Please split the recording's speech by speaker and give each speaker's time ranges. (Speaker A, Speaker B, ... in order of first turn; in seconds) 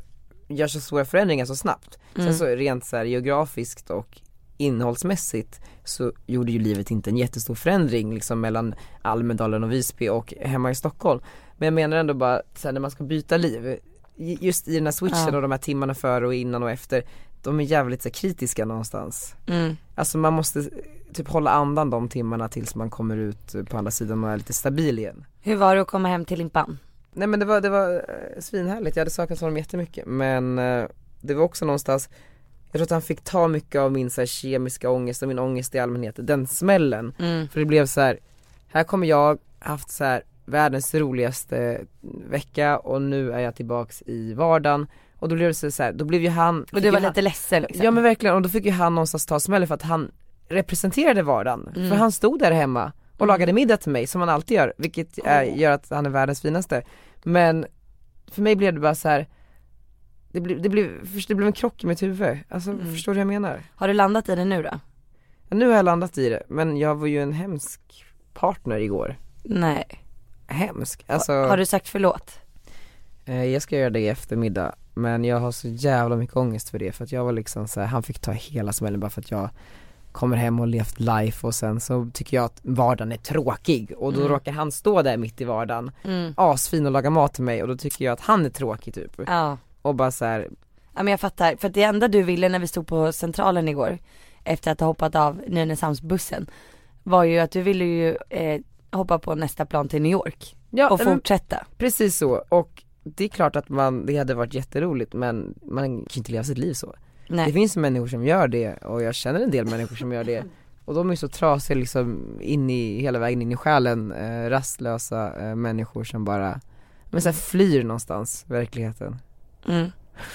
Speaker A: 0.5-19.4, 20.0-25.3, 27.1-32.1, 32.7-38.2, 38.7-47.2, 47.7-57.7, 58.3-59.3, 60.3-63.6, 65.5-69.2, 70.5-71.6, 73.3-79.5, 80.1-89.3, 89.8-90.5, 100.7-101.2, 101.8-116.6, 117.1-119.2
Speaker B: 2.2-2.4, 15.1-15.3, 19.5-19.8, 25.4-26.8, 37.2-37.5, 46.7-48.0, 51.8-52.0, 62.8-63.0, 63.8-64.8, 69.5-70.0, 71.2-72.4, 84.1-84.4, 86.0-86.4, 89.3-89.6, 91.0-96.5, 97.0-101.7, 119.7-119.9